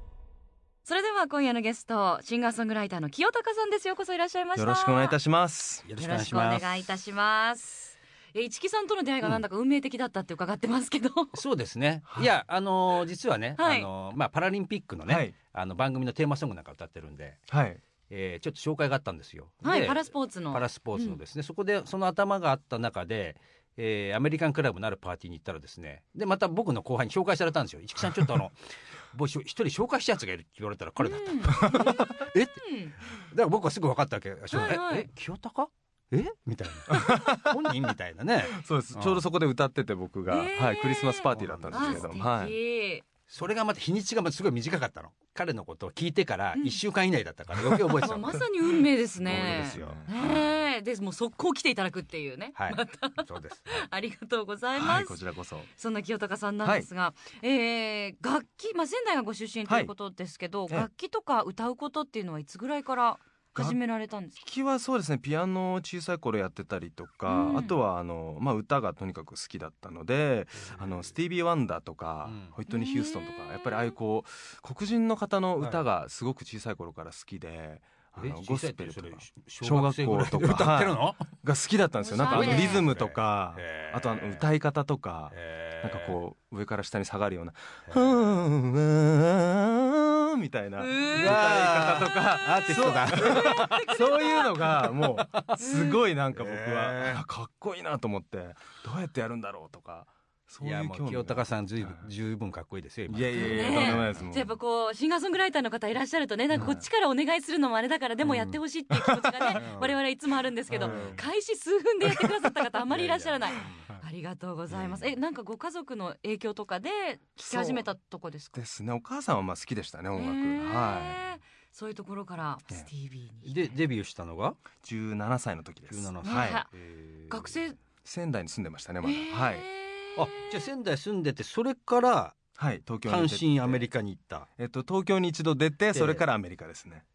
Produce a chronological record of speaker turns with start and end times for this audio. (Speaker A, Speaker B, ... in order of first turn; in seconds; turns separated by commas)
Speaker A: 0.8-5.2, Speaker B: 4.5-5.9, Speaker C: 5.8-6.7, Speaker A: 6.0-11.3, Speaker C: 11.3-17.5, Speaker A: 13.6-13.9, Speaker B: 15.1-15.3, Speaker B: 17.5-17.8, Speaker C: 18.1-28.6, Speaker A: 19.6-21.2, Speaker C: 29.1-32.6, Speaker A: 31.0-33.0, Speaker B: 31.6-32.1, Speaker C: 33.1-39.2, Speaker A: 34.5-35.1, Speaker B: 36.9-37.7, Speaker B: 38.4-42.5, Speaker A: 40.3-43.0, Speaker C: 41.3-42.1, Speaker C: 43.3-48.4, Speaker B: 47.5-48.0, Speaker A: 48.0-55.2, Speaker B: 49.2-50.4, Speaker C: 49.2-50.5, Speaker C: 52.5-53.9, Speaker B: 54.7-55.7, Speaker A: 55.7-64.4, Speaker B: 56.6-56.9, Speaker B: 59.7-59.9, Speaker B: 64.4-102.1, Speaker A: 67.2-67.8, Speaker C: 70.6-71.1, Speaker C: 72.2-72.5, Speaker A: 72.7-74.0, Speaker C: 75.6-75.8, Speaker C: 78.2-81.2, Speaker A: 82.0-82.9, Speaker C: 82.2-84.5, Speaker C: 85.3-86.2, Speaker C: 87.9-88.3, Speaker A: 90.8-91.5, Speaker C: 91.1-93.8, Speaker A: 92.3-94.7, Speaker C: 94.6-95.5, Speaker A: 95.6-96.0, Speaker C: 96.3-97.2, Speaker C: 100.6-104.2, Speaker B: 103.1-104.6, Speaker A: 103.3-118.6, Speaker B: 106.5-106.8, Speaker C: 108.2-108.6, Speaker B: 108.9-109.6, Speaker C: 109.5-110.0, Speaker B: 110.7-111.2, Speaker C: 110.7-111.2, Speaker B: 112.0-112.7, Speaker C: 112.9-113.8, Speaker B: 113.5-114.0, Speaker B: 114.7-115.1, Speaker B: 117.4-117.9, Speaker B: 118.5-121.2, Speaker A: 120.1-123.8, Speaker C: 123.4-124.6, Speaker B: 124.8-126.6, Speaker C: 125.9-127.6, Speaker A: 126.2-126.7, Speaker A: 127.3-127.8, Speaker B: 128.0-129.7, Speaker A: 129.0-130.6, Speaker C: 130.2-132.4, Speaker B: 132.6-133.9, Speaker C: 133.1-134.5, Speaker B: 134.6-137.1, Speaker C: 135.9-136.2